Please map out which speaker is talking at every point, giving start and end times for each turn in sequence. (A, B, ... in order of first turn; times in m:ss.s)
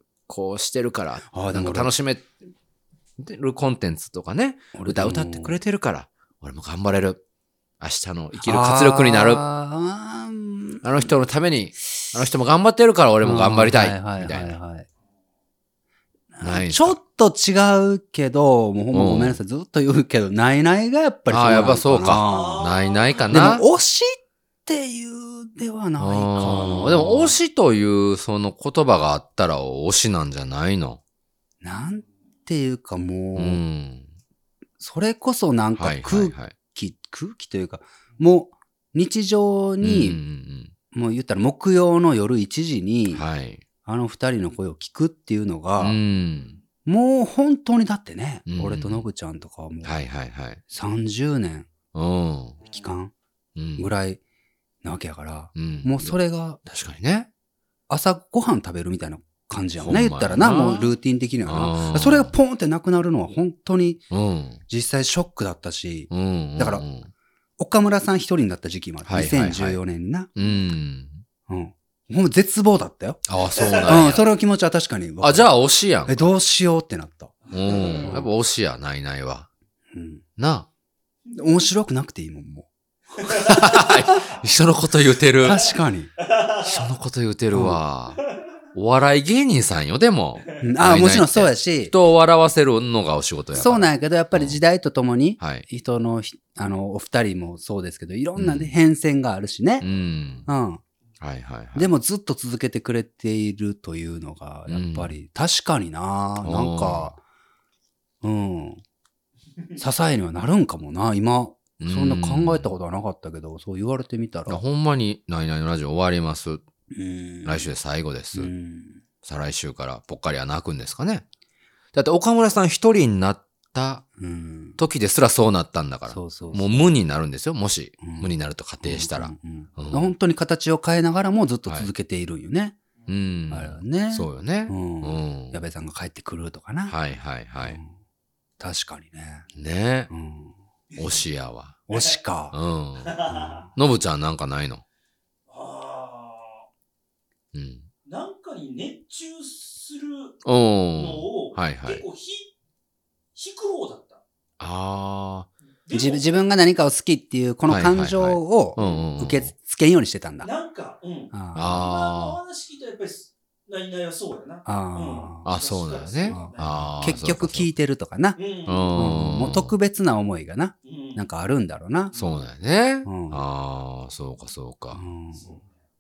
0:00.3-0:02.3 A
0:01.3-0:01.9 B
0:03.2-0:07.2 A
0:04.7-0:05.5 B
0:07.8-0:09.4 A
0:08.4-0:10.8 B
0:10.8-0:14.6 A
0:13.2-0:14.9 B
0:16.3-0:22.6 B
0:16.4-0:17.0 A
0:18.9-0:19.4 A
0:21.3-0:23.6 A
0:22.2-0:23.2 C
0:23.3-0:27.3 B
0:26.0-0:31.0 A
0:31.6-0:33.6 B
0:33.3-0:34.1 A
0:34.8-0:40.2 B
0:35.8-0:36.5 A
0:39.8-0:40.7 A
0:40.9-0:43.2 B
0:43.1-0:43.6 A
0:43.8-0:46.0 B
0:45.8-0:46.6 A
0:46.8-0:49.9 B
0:48.5-0:49.0 A
0:49.8-0:50.6 A
0:50.7-0:51.7 B
0:51.9-0:52.6 A
0:52.7-0:53.1 B
0:53.6-0:53.9 A
0:53.8-0:54.2 B
0:54.8-0:56.6 B
0:55.6-0:56.1 A
0:56.6-0:57.3 A
0:57.9-1:04.0 B
0:59.8-1:00.9 A
1:01.4-1:02.3 A
1:04.1-1:04.6 A
1:04.7-1:06.8 B
1:06.1-1:07.1 A
1:07.6-1:10.3 B
1:09.0-1:09.8 A
1:10.4-1:11.2 A
1:11.5-1:13.2 B
1:13.2-1:14.2 A
1:13.8-1:15.5 B
1:15.2-1:16.3 A
1:16.0-1:17.3 B
1:17.5-1:19.5 A
1:17.9-1:18.3 B
1:19.9-1:20.2 B
1:20.4-1:20.7 A
1:21.3-1:22.7 B
1:23.2-1:25.7 A
1:25.4-1:26.1 B
1:26.6-1:28.2 A
1:27.5-1:27.8 B
1:28.7-1:34.6 A
1:30.6-1:31.9 B
1:33.5-1:39.8 B
1:35.4-1:35.6 A
1:38.4-1:38.7 A
1:39.8-1:40.5 A
1:40.5-1:40.8 B
1:41.2-1:41.9 A
1:41.7-1:47.2 B
1:44.7-1:45.1 A
1:46.4-1:47.1 A
1:48.2-1:48.8 B
1:49.8-1:54.6 B
1:51.8-1:52.7 A
1:54.5-1:56.6 A
1:56.9-1:57.7 B
1:57.4-1:58.5 A
1:58.3-1:59.0 B
1:59.2-2:01.2 A
2:01.9-2:04.0 A
2:04.2-2:04.8 B
2:04.8-2:10.1 A
2:06.1-2:06.9 B
2:08.0-2:08.3 B
2:08.8-2:12.8 B
2:13.1-2:15.6 A
2:13.5-2:16.9 B
2:16.9-2:17.8 A
2:17.6-2:17.9 B
2:18.6-2:19.4 B
2:19.5-2:20.1 A
2:20.1-2:20.5 B
2:21.0-2:21.8 A
2:21.9-2:22.6 B
2:22.5-2:24.8 A
2:23.0-2:23.5 C
2:23.3-2:23.7 B
2:25.5-2:26.6 C
2:27.5-2:27.9 A
2:28.0-2:30.4 C
2:30.4-2:32.0 A
2:30.9-2:32.5 C
2:33.3-2:34.2 C
2:34.6-2:35.5 A
2:35.8-2:36.2 C
2:35.9-2:40.5 B
2:37.7-2:39.5 A
2:40.4-2:46.8 C
2:41.3-2:41.8 B
2:41.5-2:42.4 A
2:44.6-2:45.5 B
2:45.4-2:47.7 A
2:46.3-2:48.4 B
2:48.4-2:49.1 C
2:48.6-2:49.7 A
2:48.9-2:52.1 B
2:50.8-2:51.2 C
2:52.1-2:52.4 C
2:52.1-2:55.0 A
2:53.0-2:53.4 B
2:54.9-2:55.5 B
2:55.4-2:55.6 C